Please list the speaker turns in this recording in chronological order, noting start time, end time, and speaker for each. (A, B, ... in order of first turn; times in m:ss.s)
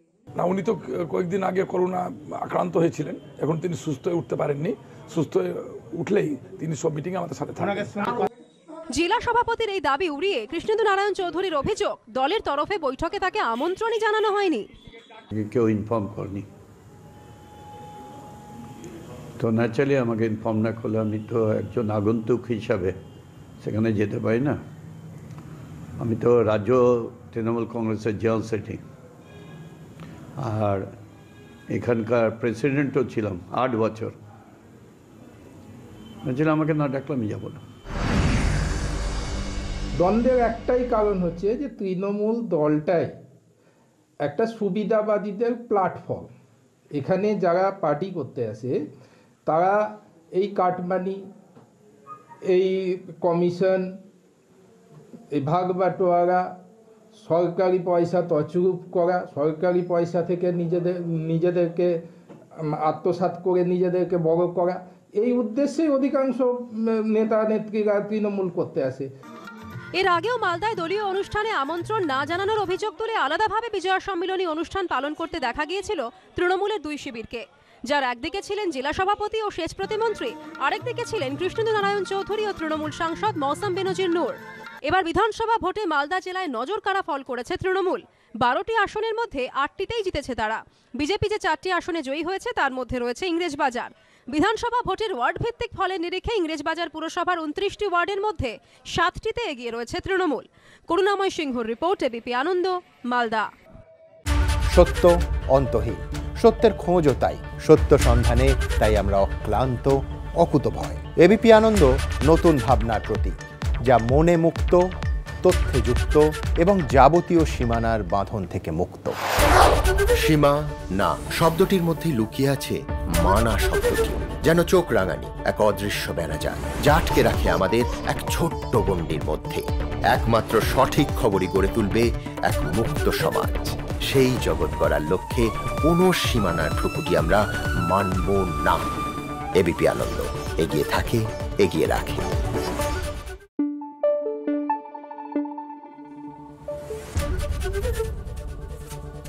0:00.4-0:08.1 A
0:08.9-0:14.7 B
0:15.3-0:16.5 C
0:19.4-0:23.0 C
0:23.6-0:24.6 C
0:26.0-0:28.8 C
0:30.4-0:30.8 C
0:31.7-0:34.2 C
0:36.2-0:37.6 C
0:40.0-0:43.1 D
0:44.2-0:46.3 D
0:46.9-0:48.8 D
0:49.5-0:51.2 D
0:52.5-0:53.9 D
0:55.3-0:56.5 D
0:57.1-1:02.0 D
1:02.6-1:09.1 D
1:10.0-1:43.5 B
1:44.7-1:54.8 E
1:55.4-1:59.2 E
2:00.2-2:18.9 F
2:19.6-2:22.3 F